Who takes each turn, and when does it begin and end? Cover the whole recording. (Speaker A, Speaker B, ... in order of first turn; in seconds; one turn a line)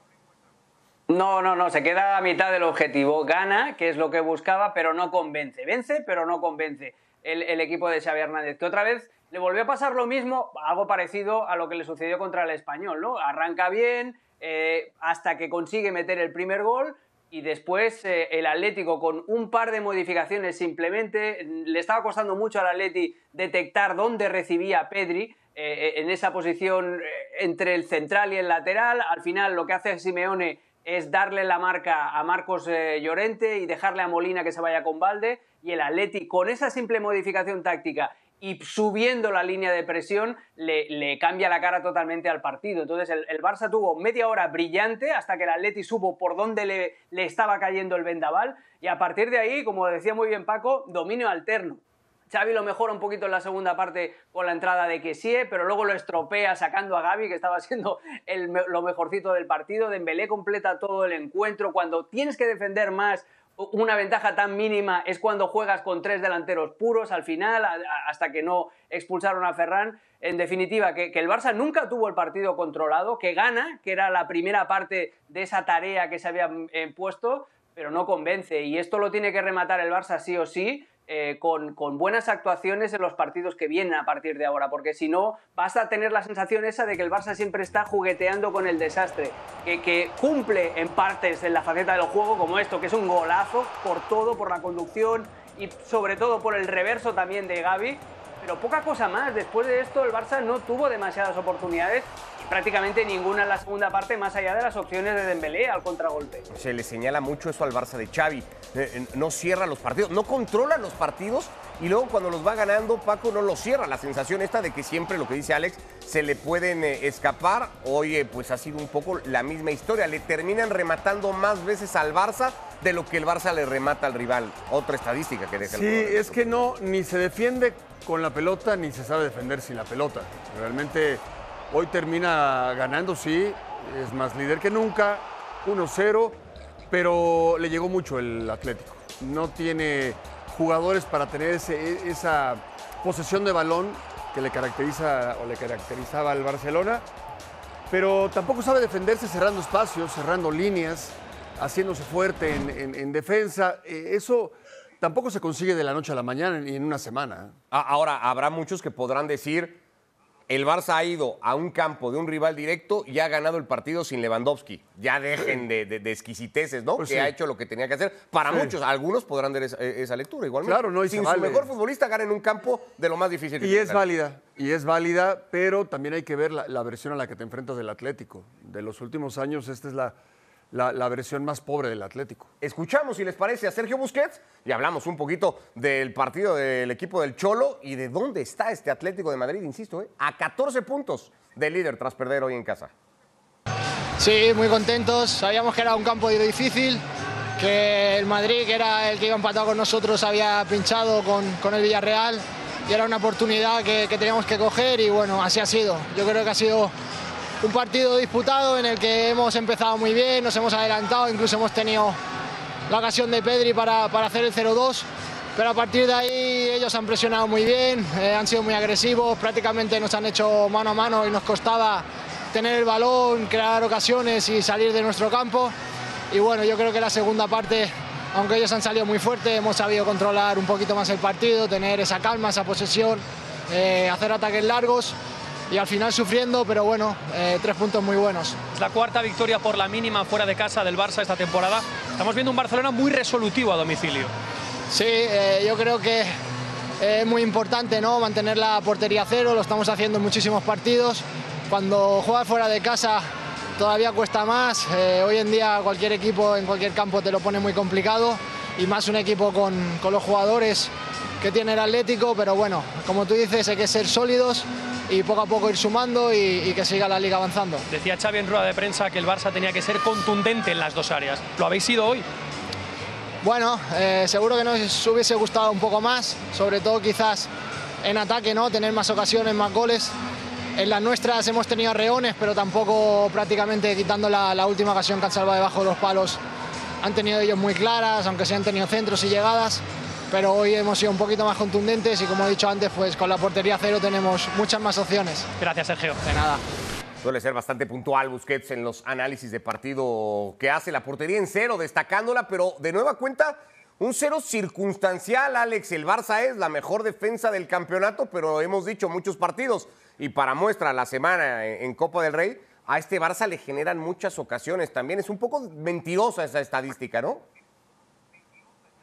Speaker A: 1.1-106.5
Speaker B: 106.5-126.6
Speaker C: 125.6-147.1
Speaker C: 147.9-157.6
Speaker B: 157.7-159.8
Speaker B: 160.5-174.0
Speaker C: 167.0-167.3
Speaker C: 168.5-168.7
Speaker C: 170.6-171.7
Speaker C: 173.6-180.2
Speaker C: 180.7-182.5
Speaker B: 182.6-192.9
Speaker D: 194.2-197.0
Speaker D: 197.6-206.9
Speaker D: 207.6-212.2
Speaker D: 212.9-225.7
Speaker D: 226.3-235.2
Speaker D: 235.7-238.6
Speaker E: 238.7-244.3
Speaker D: 244.9-246.3
Speaker D: 247.0-253.2
Speaker D: 253.8-267.8
Speaker E: 267.9-272.3
Speaker D: 273.4-277.5
Speaker D: 278.0-280.1
Speaker D: 280.8-286.4
Speaker D: 287.0-295.5
Speaker E: 295.6-296.2
Speaker D: 296.2-296.6
Speaker B: 297.2-317.4